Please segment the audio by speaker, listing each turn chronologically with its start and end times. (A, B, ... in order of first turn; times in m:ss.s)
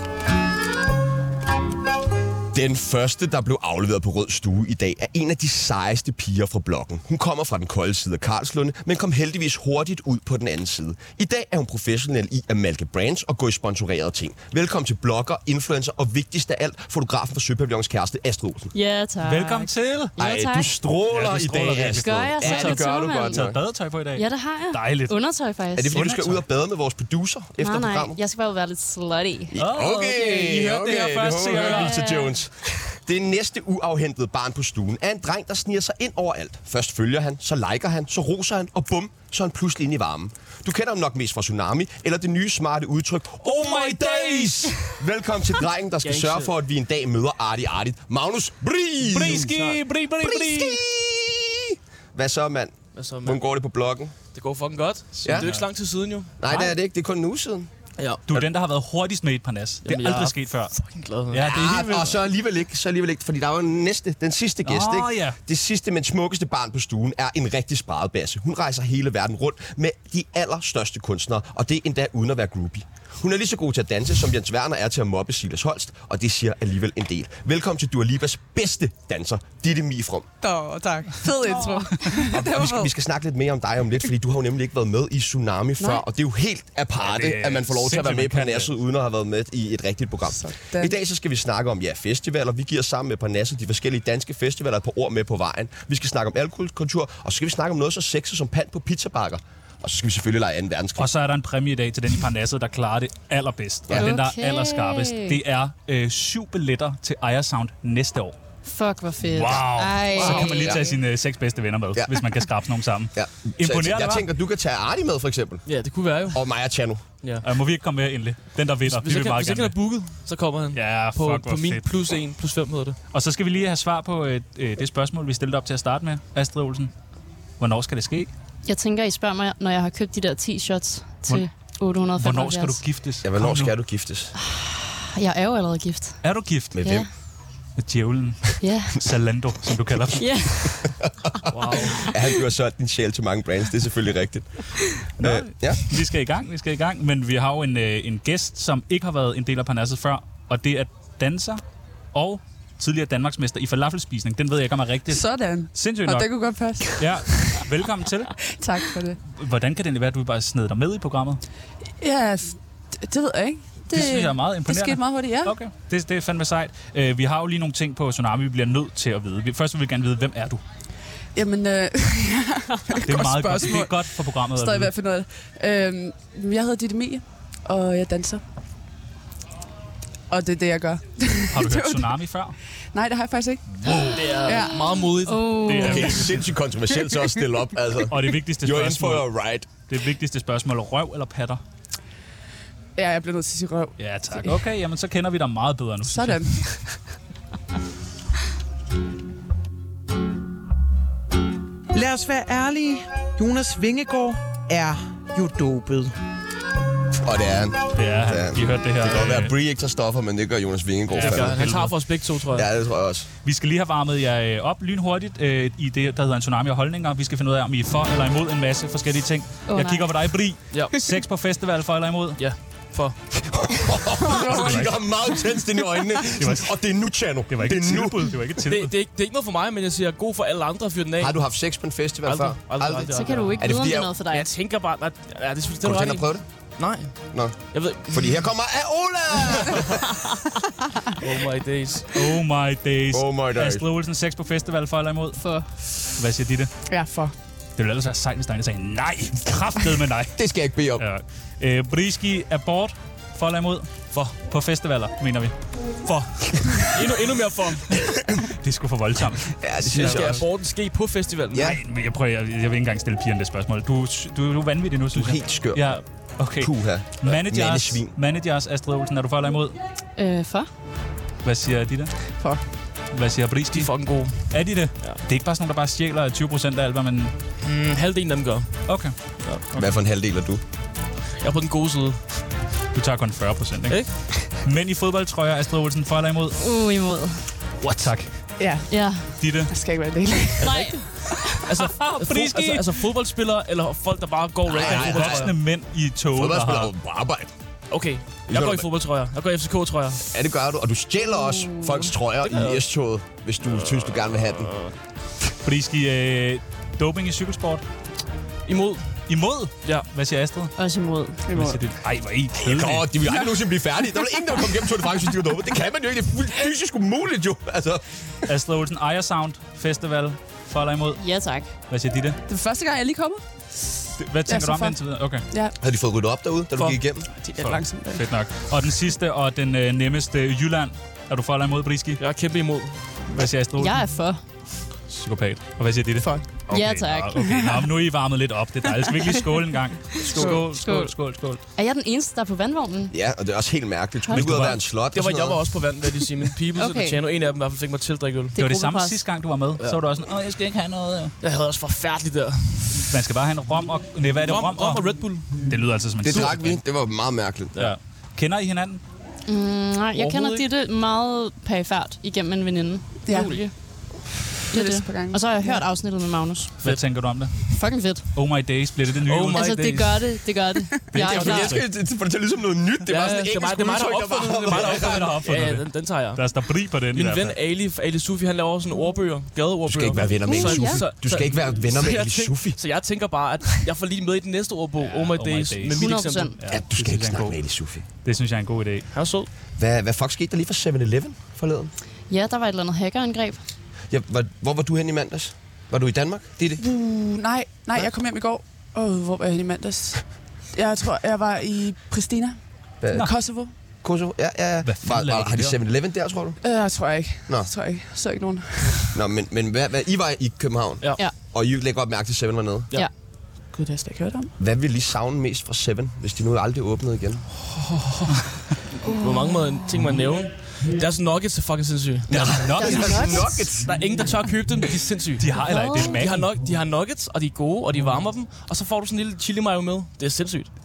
0:02.5-0:18.7 A
0:18.7-0:20.8 B
0:19.2-0:20.2 C
0:20.2-0:23.6 A
0:21.1-0:25.2 C
0:21.8-0:23.5 B
0:24.2-0:26.0 B
0:25.8-0:28.2 A
0:25.9-0:26.4 C
0:27.6-0:29.6 B
0:29.5-0:49.7 A
0:29.6-0:32.1 C
0:31.5-0:32.3 B
0:43.4-0:45.0 C
0:46.0-0:46.5 D
0:49.0-0:50.8 C
0:49.3-0:49.8 D
0:50.2-0:54.1 A
0:53.0-0:53.4 D
0:54.3-0:56.4 D
0:55.2-0:55.7 C
0:56.4-0:57.7 A
0:58.0-0:58.2 D
0:58.3-1:00.8 C
0:59.8-1:01.6 D
1:01.3-1:02.2 C
1:01.4-1:20.3 A
1:04.6-1:05.4 C
1:20.4-1:22.9 E
1:21.4-1:22.1 C
1:22.1-1:41.1 A
1:27.0-1:28.7 C
1:30.4-1:31.0 E
1:41.0-1:48.4 C
1:43.9-1:44.1 A
1:43.9-1:45.4 B
1:48.6-1:51.0 B
1:49.3-1:54.2 C
1:50.1-1:50.8 A
1:52.0-1:52.3 A
1:53.2-1:55.7 A
1:55.7-1:56.4 D
1:56.3-1:57.0 A
1:57.4-1:59.8 C
1:58.9-2:03.0 D
2:00.7-2:01.8 C
2:03.1-2:06.9 C
2:07.6-2:08.3 C
2:08.6-2:12.8 B
2:12.2-2:13.7 C
2:13.2-2:14.3 A
2:14.4-2:16.2 B
2:16.2-2:16.8 C
2:16.7-2:17.1 A
2:16.8-2:17.1 B
2:17.8-2:20.7 C
2:18.6-2:19.1 B
2:20.1-2:20.9 B
2:21.0-2:21.3 A
2:21.5-2:22.1 D
2:21.8-2:22.1 B
2:22.0-2:26.0 A
2:25.2-2:31.6 C
2:32.1-2:38.3 C
2:35.1-2:37.6 E
2:38.5-2:39.2 E
2:39.3-2:41.4 C
2:42.0-2:45.5 E
2:43.9-2:50.6 C
2:51.4-2:58.4 E
2:53.1-2:54.9 C
3:00.3-3:02.2 E
3:01.5-3:02.6 C
3:02.9-3:04.8 E
3:03.8-3:04.3 C
3:04.1-3:06.1 D
3:04.4-3:06.3 B
3:05.6-3:06.4 C
3:05.8-3:09.7 A
3:08.1-3:11.6 C
3:13.0-3:14.6 E
3:14.0-3:16.8 C
3:16.0-3:16.9 E
3:21.9-3:26.2 F
3:27.2-3:31.6 A
3:28.0-3:29.5 C
3:31.1-3:32.0 C
3:31.2-3:32.7 D
3:32.5-3:33.3 A
3:33.4-3:42.4 C
3:39.7-3:40.1 B
3:40.7-3:41.1 D
3:42.4-3:43.2 D
3:43.4-3:48.4 A
3:44.2-3:44.8 E
3:44.5-3:45.0 C
3:46.4-3:46.7 C
3:47.5-3:48.9 C
3:48.6-3:51.4 D
3:51.2-3:54.2 A
3:52.2-3:53.7 D
3:53.0-3:54.5 B
3:54.3-3:57.2 D
3:55.8-3:56.4 A
3:57.3-4:00.1 A
3:57.7-3:58.4 D
4:01.2-4:02.3 D
4:02.1-4:05.4 C
4:03.1-4:03.9 A
4:05.4-4:05.7 B
4:06.2-4:06.7 C
4:06.9-4:07.3 E
4:07.8-4:10.4 C
4:10.4-4:11.0 A
4:11.0-4:17.0 C
4:16.9-4:18.0 D
4:18.1-4:20.5 C
4:19.6-4:20.4 A
4:19.9-4:21.8 D
4:21.6-4:29.8 C
4:25.1-4:25.9 A
4:26.5-4:28.1 A
4:30.2-4:30.7 B
4:31.4-4:32.1 C
4:33.1-4:37.3 C
4:33.7-4:35.2 D
4:37.6-4:39.6 D
4:38.9-4:39.2 C
4:39.7-4:40.0 C
4:39.8-4:40.6 A
4:41.4-4:42.2 D
4:42.9-4:46.6 C
4:43.9-4:44.4 D
4:46.6-4:47.5 B
4:47.8-4:48.1 D
4:47.8-4:48.5 C
4:48.6-4:51.0 E
4:48.9-4:49.4 B
4:49.4-4:49.7 C
4:50.6-4:55.5 D
4:50.6-4:51.6 B
4:51.8-4:53.0 C
4:54.7-4:55.6 A
4:54.7-4:56.9 C
4:56.3-4:57.5 A
4:57.9-5:00.2 D
4:58.5-4:58.9 A
5:00.3-5:04.7 A
5:02.4-5:02.8 D
5:03.6-5:04.9 D
5:05.6-5:07.8 C
5:08.7-5:09.2 D
5:09.3-5:10.7 C
5:10.8-5:11.4 B
5:11.5-5:11.8 E
5:11.5-5:13.1 C
5:12.6-5:18.5 A
5:18.5-5:21.2 C
5:21.2-5:21.7 B
5:21.9-5:22.4 C
5:22.5-5:23.4 E
5:24.2-5:25.5 C
5:24.5-5:25.7 E
5:25.8-5:27.3 A
5:26.8-5:27.7 D
5:27.5-5:28.3 E
5:27.6-5:32.2 C
5:32.2-5:33.1 D
5:33.3-5:34.1 C
5:33.8-5:34.4 B
5:35.1-5:41.6 C
5:36.2-5:36.4 E
5:36.7-5:37.7 B
5:40.2-5:43.1 B
5:43.1-5:45.8 A
5:44.2-5:44.6 B
5:44.3-5:44.9 C
5:45.1-5:48.6 D
5:46.8-5:47.2 B
5:48.6-5:49.2 B
5:48.6-5:51.3 C
5:51.4-5:52.9 D
5:53.0-5:56.8 C
5:54.4-5:55.7 D
5:56.2-5:57.7 A
5:56.3-5:56.6 D
5:57.8-5:59.0 C
5:59.5-6:03.7 B
6:00.2-6:00.6 D
6:03.3-6:03.6 E
6:03.3-6:03.7 D
6:04.7-6:05.8 E
6:04.7-6:06.8 B
6:06.8-6:07.7 C
6:07.7-6:08.3 B
6:08.3-6:10.0 C
6:09.2-6:10.4 D
6:09.5-6:11.8 B
6:11.1-6:11.8 C
6:11.1-6:15.3 A
6:13.1-6:26.6 D
6:14.6-6:17.6 C
6:19.9-6:22.8 A
6:20.5-6:21.0 B
6:25.0-6:27.6 C
6:26.0-6:26.6 B
6:26.7-6:28.0 A
6:28.2-6:29.1 C
6:29.1-6:29.5 D
6:29.8-6:31.9 A
6:32.3-6:33.6 B
6:34.1-6:36.8 A
6:36.8-6:42.6 E
6:43.0-6:43.3 A
6:43.1-6:43.7 E
6:44.0-6:46.6 A
6:44.8-6:45.8 C
6:46.6-6:49.1 E
6:49.1-6:52.9 A
6:53.7-6:54.5 E
6:54.6-6:57.5 A
6:58.2-6:58.6 C
6:59.0-7:10.7 D
6:59.0-6:59.5 B
7:02.3-7:04.0 A
7:02.3-7:03.5 C
7:02.8-7:03.7 B
7:05.4-7:06.5 C
7:05.6-7:06.2 B